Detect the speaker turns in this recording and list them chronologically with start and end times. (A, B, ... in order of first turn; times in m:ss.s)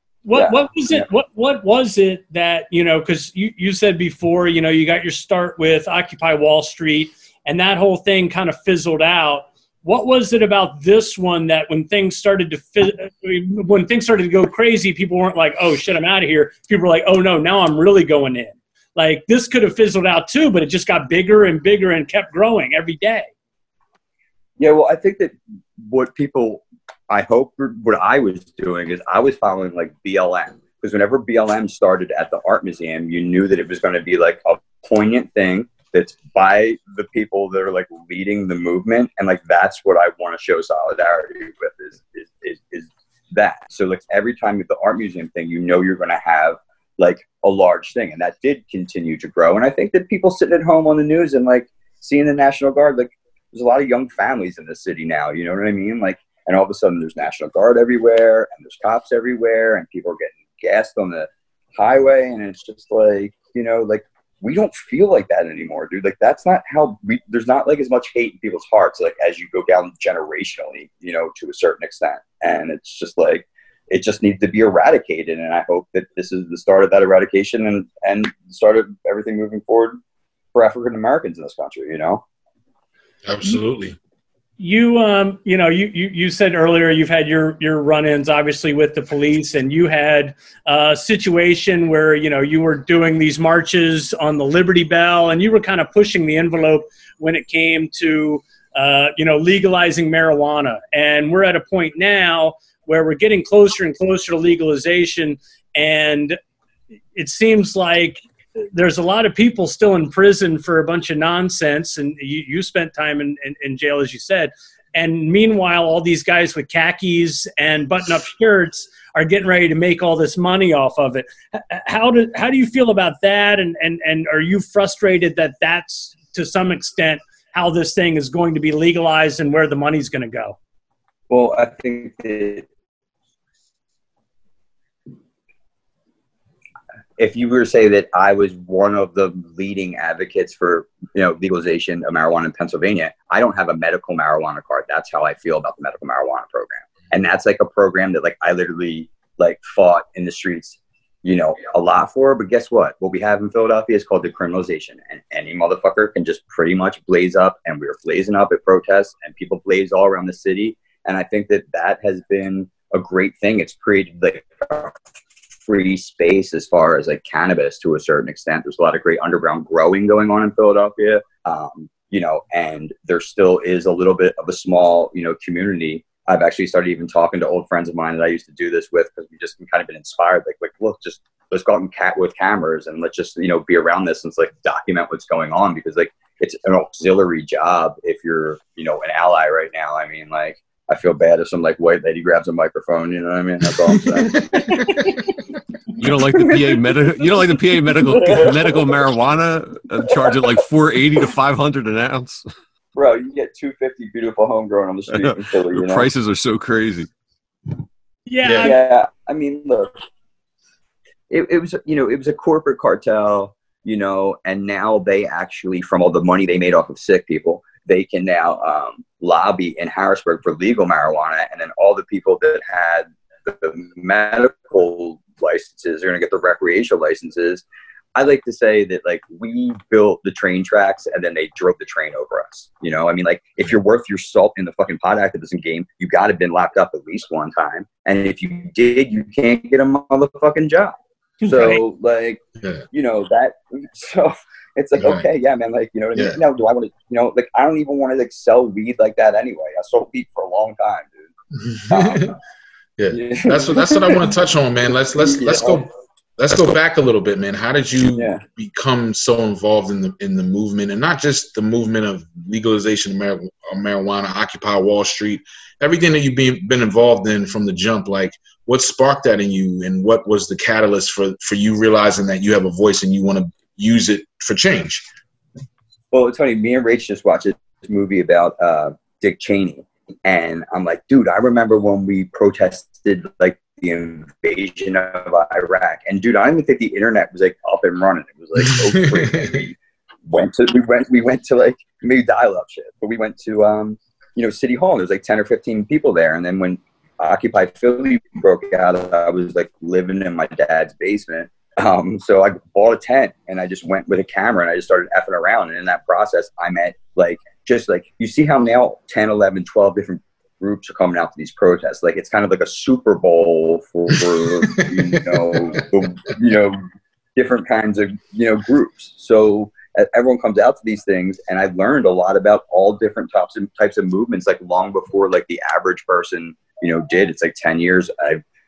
0:00.2-0:23.3 A
0:00.3-0:01.1 B
0:24.6-1:20.0 B
1:20.5-1:22.2 B
1:23.2-1:24.0 C
1:24.6-1:46.4 A
1:47.2-2:10.6 A
2:11.3-2:12.6 B
2:17.2-2:45.0 B
2:45.6-3:14.9 B
3:14.2-3:14.7 C
3:16.0-3:22.4 D
3:16.2-3:17.0 B
3:18.0-3:18.8 B
3:23.0-3:26.1 B
3:25.1-3:27.1 D
3:28.3-3:28.8 A
3:28.4-3:28.7 C
3:28.6-3:29.9 B
3:31.3-3:47.6 B
3:48.2-4:02.4 B
4:01.4-4:01.8 A
4:02.9-4:11.3 B
4:05.0-4:05.2 C
4:06.2-4:06.4 C
4:11.6-4:12.4 C
4:11.9-4:12.3 B
4:13.0-4:35.0 C
4:13.1-4:14.3 B
4:15.2-4:15.8 B
4:18.1-4:18.4 B
4:36.1-5:16.8 B
4:48.7-4:49.5 C
5:14.6-5:15.8 C
5:17.4-5:28.4 B